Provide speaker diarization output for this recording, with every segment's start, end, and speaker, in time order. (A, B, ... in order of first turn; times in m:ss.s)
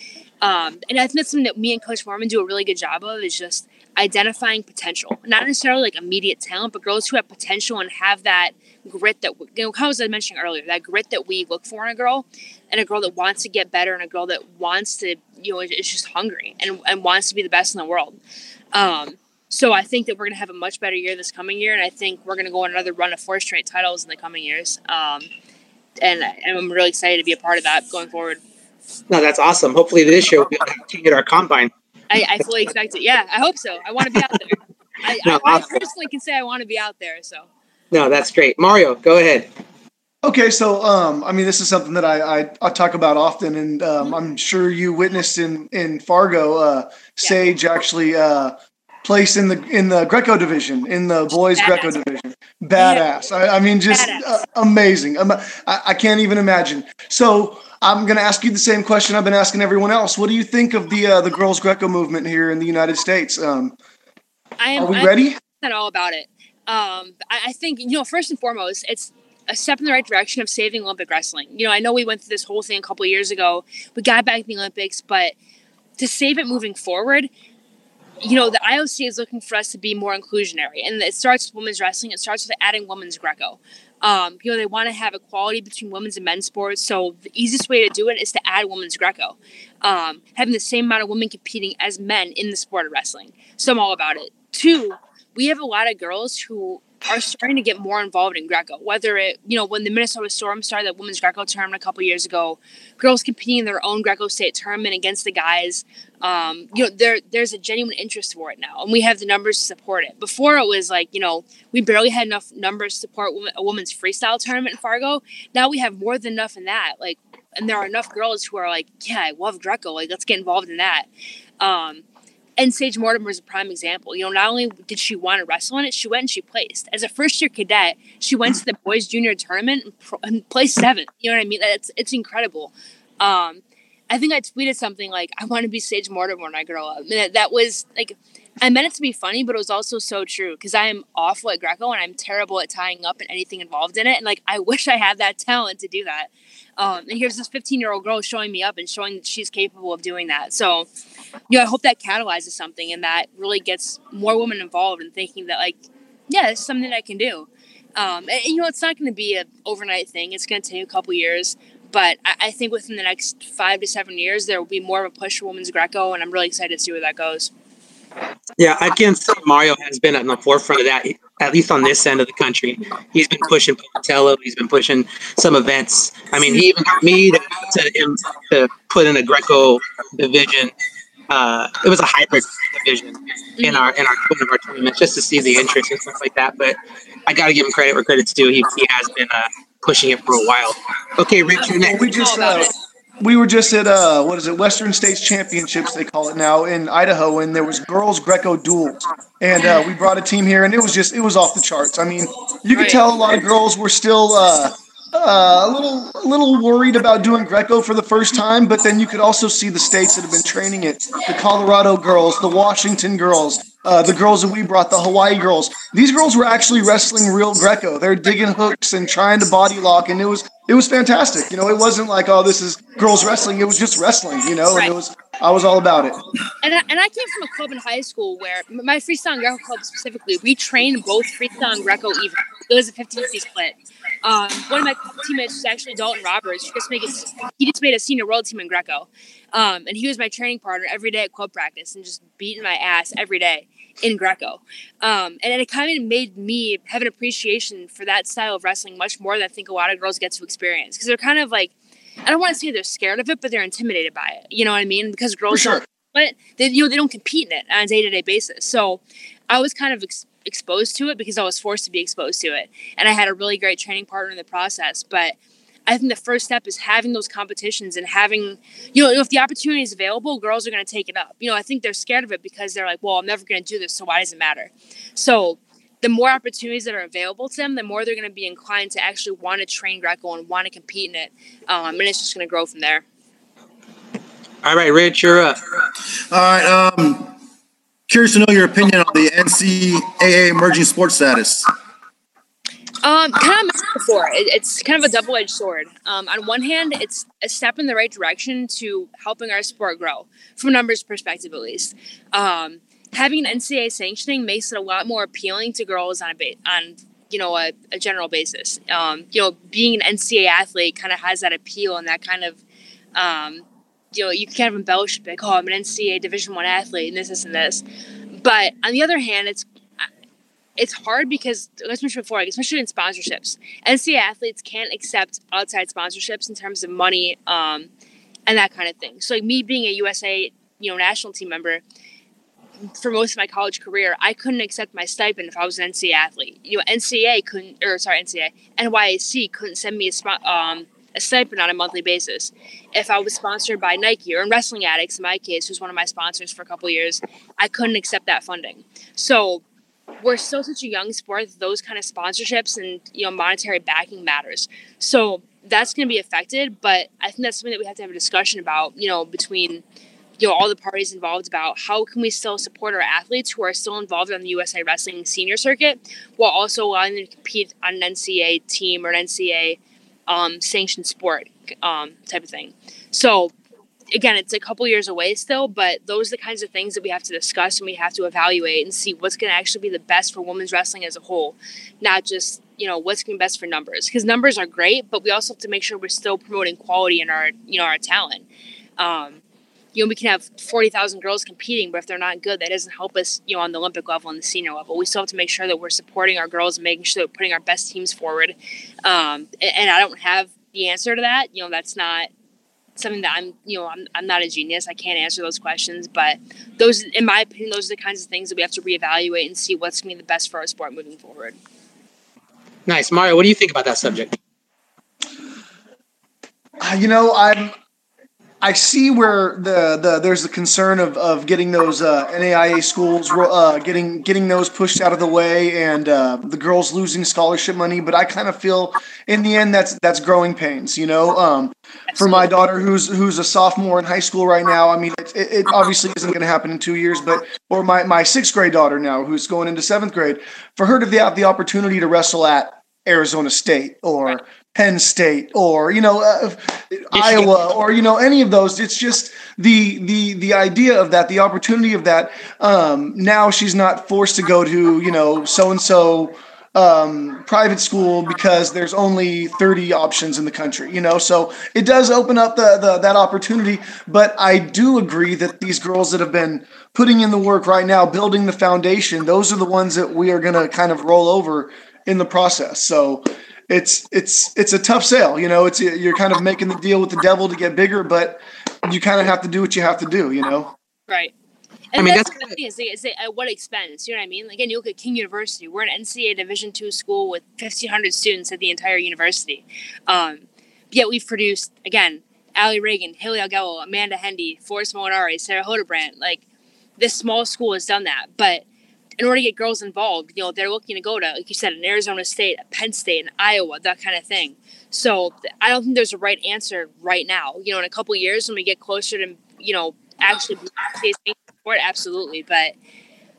0:00.4-0:18.2 A
0:18.7-0:25.3 A
0:26.0-0:28.4 A
0:29.1-0:31.7 B
0:32.1-0:37.5 A
0:35.2-0:35.8 B
0:37.9-0:39.5 B
0:40.2-1:03.8 C
0:51.6-0:51.9 A
0:52.8-0:53.0 A
0:53.9-0:54.4 A
1:04.6-1:15.3 A
1:04.8-1:05.4 C
1:16.0-1:17.3 A
1:18.2-2:01.1 A
2:01.6-2:02.0 A
2:02.6-2:30.9 A
2:31.5-2:35.8 A
2:36.3-2:47.5 A
2:48.6-3:00.7 B
3:01.3-3:12.0 B
3:03.6-3:03.8 A
3:11.6-3:12.7 A
3:11.8-3:12.7 C
3:13.2-3:46.2 C
3:22.7-3:23.0 A
3:46.6-4:11.7 A
4:12.2-4:25.4 A
4:15.5-4:15.8 C
4:25.9-4:43.0 A
4:44.6-4:45.6 B
4:46.3-4:47.3 D
4:48.1-4:51.7 D
4:53.0-5:12.6 A
5:13.2-5:17.8 A
5:18.3-5:20.0 A
5:20.8-5:27.9 A
5:28.5-5:31.8 A
5:32.8-5:49.6 A
5:50.2-5:59.8 A
6:00.4-6:13.5 A
6:14.1-6:28.4 A
6:29.0-6:29.4 A
6:29.9-6:42.3 A
6:43.0-6:51.6 A
6:52.8-6:54.4 B
6:56.8-6:57.7 C
6:58.6-8:00.7 C
7:12.1-7:12.4 A
7:27.1-7:27.4 B
8:01.9-8:16.4 A
8:02.0-8:02.5 B
8:17.0-8:18.6 A
8:19.2-8:32.7 A